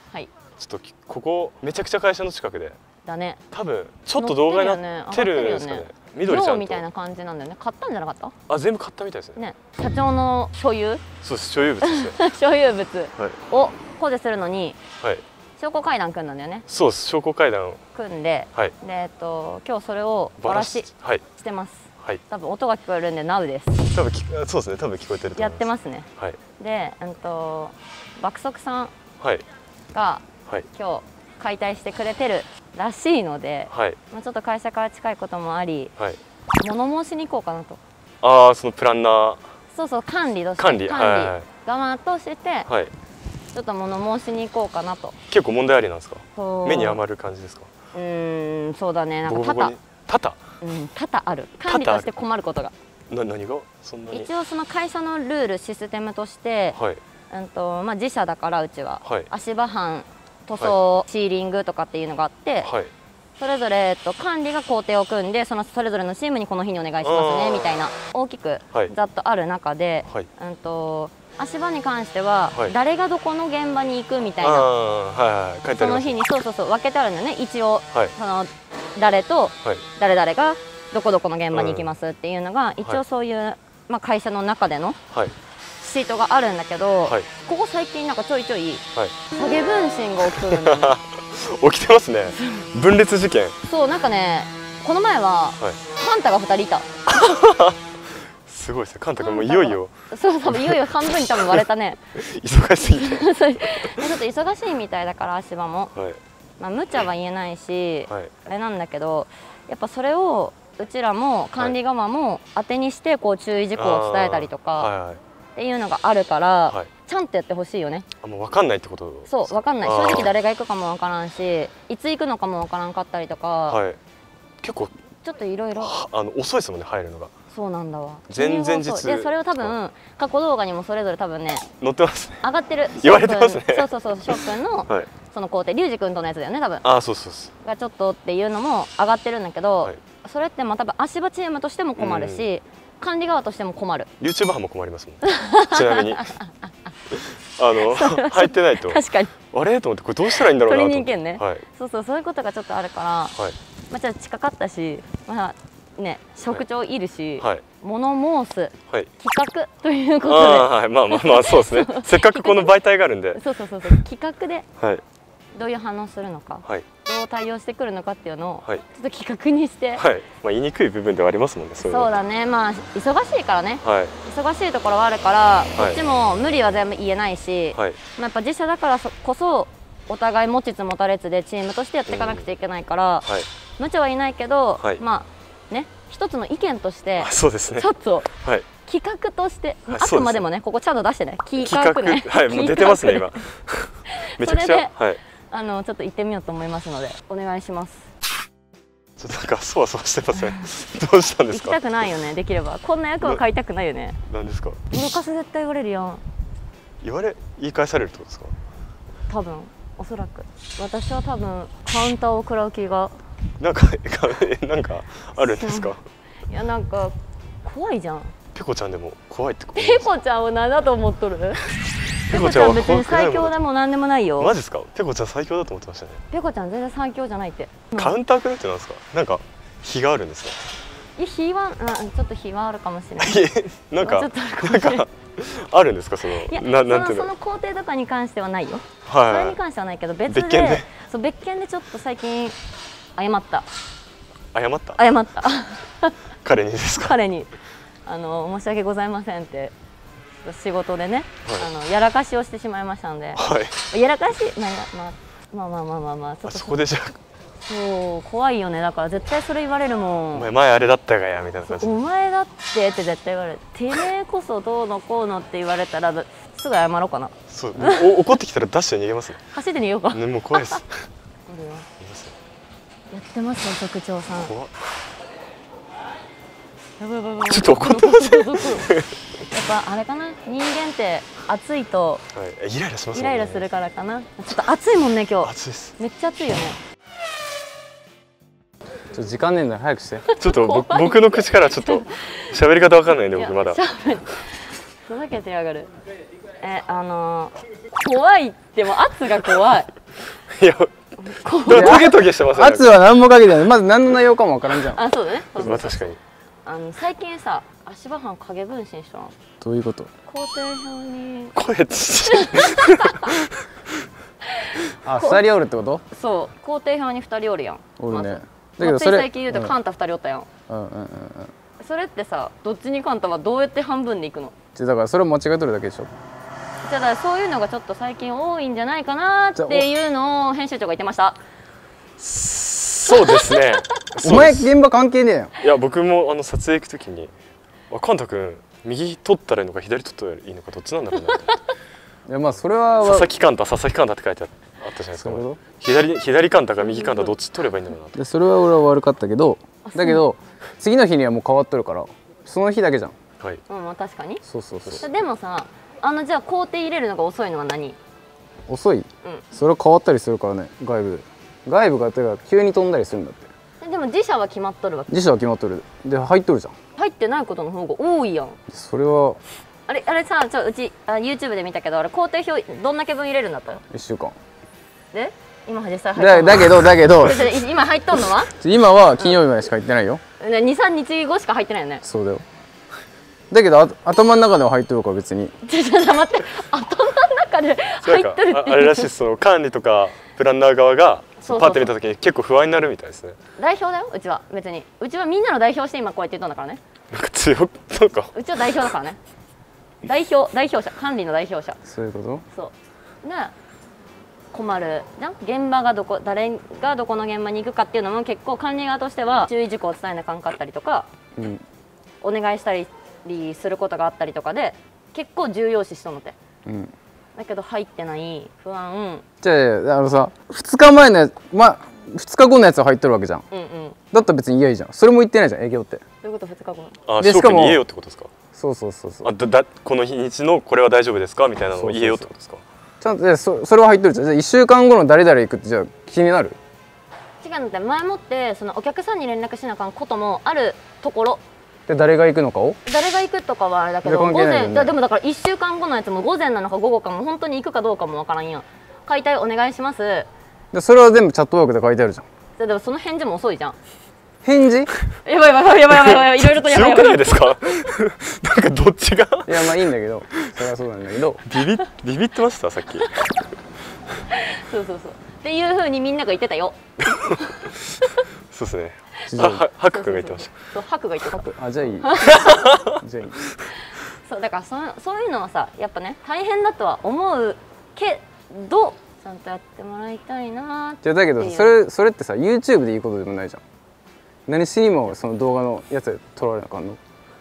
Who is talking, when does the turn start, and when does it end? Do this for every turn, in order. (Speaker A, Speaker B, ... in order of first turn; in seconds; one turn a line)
Speaker A: 0.6-2.8
Speaker B: 3.0-3.4
Speaker A: 3.5-6.8
Speaker B: 4.2-8.4
Speaker A: 8.5-9.4
Speaker B: 9.4-11.2
Speaker A: 11.2-12.2
Speaker B: 11.8-14.8
Speaker B: 15.6-16.7
Speaker A: 16.7-17.8
Speaker B: 17.9-23.9
Speaker A: 20.4-21.3
Speaker A: 23.8-26.4
Speaker B: 25.4-28.9
Speaker A: 29.2-29.4
Speaker B: 29.9-35.9
Speaker A: 33.7-34.0
Speaker B: 36.6-37.8
Speaker A: 38.2-39.4
Speaker B: 39.7-42.7
Speaker A: 40.6-41.5
Speaker A: 42.7-42.9
Speaker B: 43.5-45.2
Speaker A: 45.3-47.7
Speaker B: 46.4-47.0
Speaker B: 47.9-49.8
Speaker A: 49.2-50.5
Speaker B: 50.6-52.7
Speaker A: 51.7-52.2
Speaker A: 53.1-54.3
Speaker B: 54.1-56.8
Speaker A: 56.7-57.0
Speaker B: 57.3-62.7
Speaker A: 62.6-62.9
Speaker B: 63.4-74.7
Speaker A: 67.0-67.8
Speaker A: 74.4-76.2
Speaker B: 75.7-85.0
Speaker A: 81.5-81.9
Speaker B: 85.8-91.0
Speaker A: 88.9-89.2
Speaker A: 90.4-93.6
Speaker B: 92.3-92.7
Speaker B: 93.6-97.0
Speaker A: 97.1-97.8
Speaker A: 98.5-99.9
Speaker B: 99.2-102.1
Speaker A: 100.5-101.6
Speaker A: 102.1-103.3
Speaker B: 102.9-105.9
Speaker A: 103.8-104.1
Speaker A: 105.9-106.2
Speaker B: 106.6-114.9
Speaker A: 108.1-108.3
Speaker A: 113.8-115.2
Speaker B: 115.6-118.1
Speaker A: 118.2-120.3
Speaker B: 119.3-123.8
Speaker A: 123.7-124.0
Speaker A: 124.6-124.9
Speaker B: 125.2-125.9
Speaker A: 125.8-127.3
Speaker B: 127.5-131.7
Speaker A: 128.3-129.8
Speaker A: 131.8-135.1
Speaker B: 132.4-136.8
Speaker A: 136.8-137.5
Speaker B: 137.6-144.1
Speaker A: 142.0-142.5
Speaker A: 144.2-146.4
Speaker B: 145.2-146.6
Speaker A: 147.1-151.6
Speaker B: 147.8-149.3
Speaker B: 150.3-153.4
Speaker B: 153.9-162.7
Speaker A: 157.4-157.7
Speaker A: 160.2-164.0
Speaker B: 163.3-164.7
Speaker B: 165.6-170.0
Speaker A: 170.0-172.1
Speaker B: 171.8-183.3
Speaker A: 173.8-174.2
Speaker A: 175.8-176.0
Speaker A: 177.8-178.0
Speaker A: 182.1-182.5
Speaker B: 183.8-188.3
Speaker A: 187.2-188.7
Speaker B: 188.8-193.4
Speaker A: 189.9-190.4
Speaker A: 191.6-195.2
Speaker B: 194.1-195.0
Speaker B: 195.5-198.1
Speaker A: 199.2-201.8
Speaker B: 201.5-204.2
Speaker A: 204.3-204.8
Speaker B: 204.9-206.2
Speaker A: 207.0-208.5
Speaker B: 209.3-213.2
Speaker A: 213.6-216.0
Speaker B: 215.6-215.9
Speaker B: 216.5-218.4
Speaker A: 218.5-220.1
Speaker B: 219.8-221.7
Speaker A: 222.3-223.5
Speaker B: 222.3-224.6
Speaker A: 224.4-226.2
Speaker B: 226.3-228.2
Speaker A: 227.9-230.6
Speaker B: 231.2-233.4
Speaker A: 233.2-237.3
Speaker B: 234.0-235.1
Speaker B: 236.3-242.6
Speaker A: 239.1-239.6
Speaker A: 240.3-240.9
Speaker B: 243.2-243.7
Speaker A: 244.5-245.0
Speaker B: 245.0-246.2
Speaker A: 246.4-247.2
Speaker B: 247.0-247.5
Speaker B: 248.1-249.7
Speaker B: 250.4-256.8
Speaker A: 253.4-253.9
Speaker A: 256.4-257.2
Speaker B: 257.6-260.5
Speaker A: 260.3-262.0
Speaker B: 261.6-268.2
Speaker A: 267.5-269.4
Speaker B: 269.5-270.8
Speaker A: 270.1-271.1
Speaker B: 271.5-271.9
Speaker A: 272.0-272.4
Speaker B: 273.1-274.6
Speaker A: 274.4-274.7
Speaker B: 277.0-282.3
Speaker A: 277.5-279.1
Speaker A: 282.3-283.7
Speaker B: 283.1-286.8
Speaker A: 285.4-286.0
Speaker C: 289.1-290.2
Speaker B: 290.3-292.5
Speaker A: 290.4-293.8
Speaker B: 293.4-295.9
Speaker B: 296.6-299.9
Speaker A: 300.5-300.9
Speaker B: 301.2-302.0
Speaker A: 301.5-302.9
Speaker C: 301.7-305.0
Speaker B: 304.8-309.3
Speaker A: 305.6-306.2
Speaker C: 309.6-310.1
Speaker B: 310.3-311.6
Speaker A: 311.5-313.9
Speaker B: 312.3-313.4
Speaker B: 314.4-315.4
Speaker C: 315.0-316.0
Speaker B: 316.1-320.5
Speaker C: 318.0-319.8
Speaker C: 320.7-321.5
Speaker B: 321.8-324.6
Speaker C: 324.8-326.1
Speaker B: 326.8-331.4
Speaker C: 329.6-329.9
Speaker A: 332.2-334.7
Speaker B: 333.1-333.8
Speaker C: 334.2-335.5
Speaker A: 335.6-337.3
Speaker A: 337.9-341.6
Speaker C: 342.3-343.3
Speaker A: 343.0-348.2
Speaker C: 345.2-345.6
Speaker B: 346.9-347.4
Speaker C: 348.1-353.1
Speaker B: 349.9-350.2
Speaker B: 353.7-354.4
Speaker C: 354.4-355.1
Speaker B: 355.0-358.0
Speaker C: 358.7-363.5
Speaker B: 363.8-365.1
Speaker C: 365.1-366.7
Speaker B: 367.0-368.6
Speaker C: 368.7-369.4
Speaker B: 369.9-373.8
Speaker C: 373.9-374.4
Speaker B: 375.1-378.6
Speaker C: 376.2-377.6
Speaker C: 378.6-380.2
Speaker B: 379.2-379.4
Speaker B: 380.4-382.0
Speaker C: 382.0-382.4
Speaker C: 383.5-385.6
Speaker B: 385.6-389.1
Speaker A: 388.0-393.4
Speaker B: 391.4-391.9
Speaker B: 393.6-396.8
Speaker A: 397.1-398.3
Speaker B: 398.3-399.2
Speaker B: 400.0-401.8
Speaker C: 401.9-402.4
Speaker B: 402.5-403.5
Speaker B: 404.5-411.1
Speaker C: 411.4-411.6
Speaker B: 412.2-416.4
Speaker C: 416.6-416.9
Speaker B: 417.4-419.2
Speaker C: 419.4-423.4
Speaker B: 423.5-424.0
Speaker C: 424.1-426.0
Speaker B: 426.2-427.1
Speaker A: 427.1-428.3
Speaker C: 427.2-427.8
Speaker C: 428.5-429.3
Speaker A: 429.2-432.6
Speaker C: 431.8-432.3
Speaker C: 433.0-436.6
Speaker B: 437.4-441.4
Speaker C: 441.9-442.8
Speaker B: 442.9-450.3
Speaker C: 444.0-444.9
Speaker C: 450.7-452.3
Speaker B: 452.6-453.8
Speaker C: 454.4-454.9
Speaker B: 455.2-457.6
Speaker A: 455.9-459.9
Speaker C: 459.5-461.4
Speaker A: 461.4-463.3
Speaker B: 463.0-463.3
Speaker B: 464.3-468.2
Speaker A: 467.0-470.6
Speaker B: 469.3-472.7
Speaker C: 469.3-469.7
Speaker C: 471.3-472.1
Speaker A: 472.2-473.0
Speaker C: 472.8-473.5
Speaker B: 473.7-481.8
Speaker C: 481.0-483.6
Speaker C: 484.5-487.0